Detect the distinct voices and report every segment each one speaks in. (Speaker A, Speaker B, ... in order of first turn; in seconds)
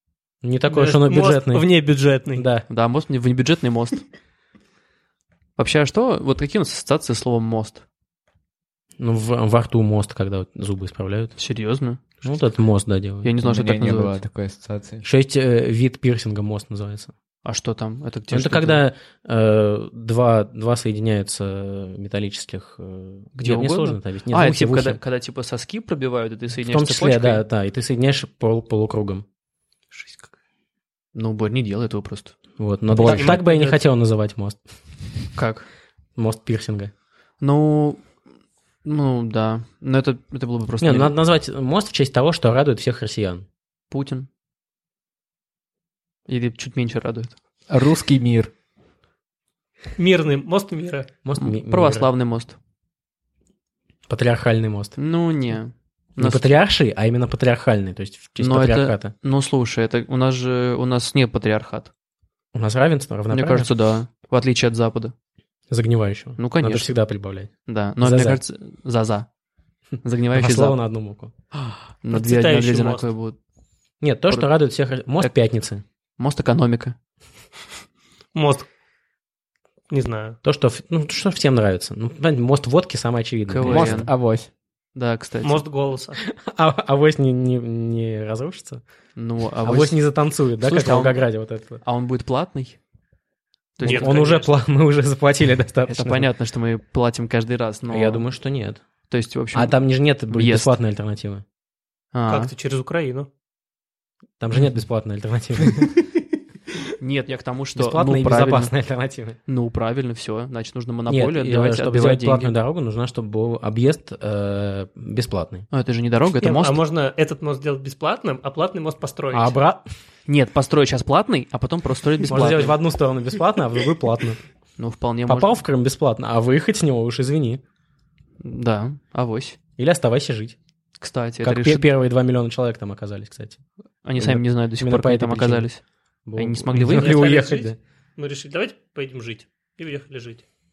Speaker A: 0.4-1.7, 2.3-2.6, 9.0-11.3, 12.2-13.3, 15.0-17.1, 18.3-25.0, 26.6-29.2, 32.6-34.6, 36.1-36.9, 40.8-43.4, 51.2-52.1, 54.1-54.9, 56.2-59.1, 62.5-63.7, 65.7-68.4, 70.3-71.3, 74.0-75.8, 80.4-84.0, 86.2-88.8, 89.6-91.8, 93.8-96.3, 97.9-98.8, 99.5-101.4, 104.4-106.0, 107.8-109.4, 111.1-115.7, 119.3-119.8, 122.3-124.4, 125.2-127.6, 129.8-130.6, 131.4-133.6, 134.2-135.7, 136.2-137.8
Speaker B: 0.7-2.5, 33.0-33.8, 50.0-51.1, 72.1-73.1, 78.3-78.7, 79.9-80.4, 85.4-86.2, 93.8-94.5, 102.3-103.3, 116.4-119.5, 136.9-140.4
Speaker C: 2.7-4.0, 5.6-7.8, 11.4-12.2, 13.2-14.2, 17.4-18.8, 23.4-27.4, 29.9-30.3, 31.1-33.4, 35.3-35.7, 37.4-38.1, 38.8-41.1, 43.9-44.3, 46.3-47.3, 51.4-52.5, 55.0-56.5, 58.4-61.9, 63.3-65.1, 66.4-66.9, 67.7-69.3, 70.0-70.8, 72.0-73.3, 76.2-76.9, 83.5-84.1, 84.9-85.6, 89.2-90.0, 90.6-91.3, 91.8-92.8, 93.8-94.4, 95.9-98.2, 99.1-99.8, 100.3-100.7, 102.1-102.5, 107.0-108.7, 109.5-112.5, 115.7-116.8, 120.2-122.8, 124.8-125.6, 128.4-129.6, 131.0-131.9, 134.0-135.8, 136.3-137.3
Speaker D: 13.4-15.0, 47.7-48.5, 83.6-84.5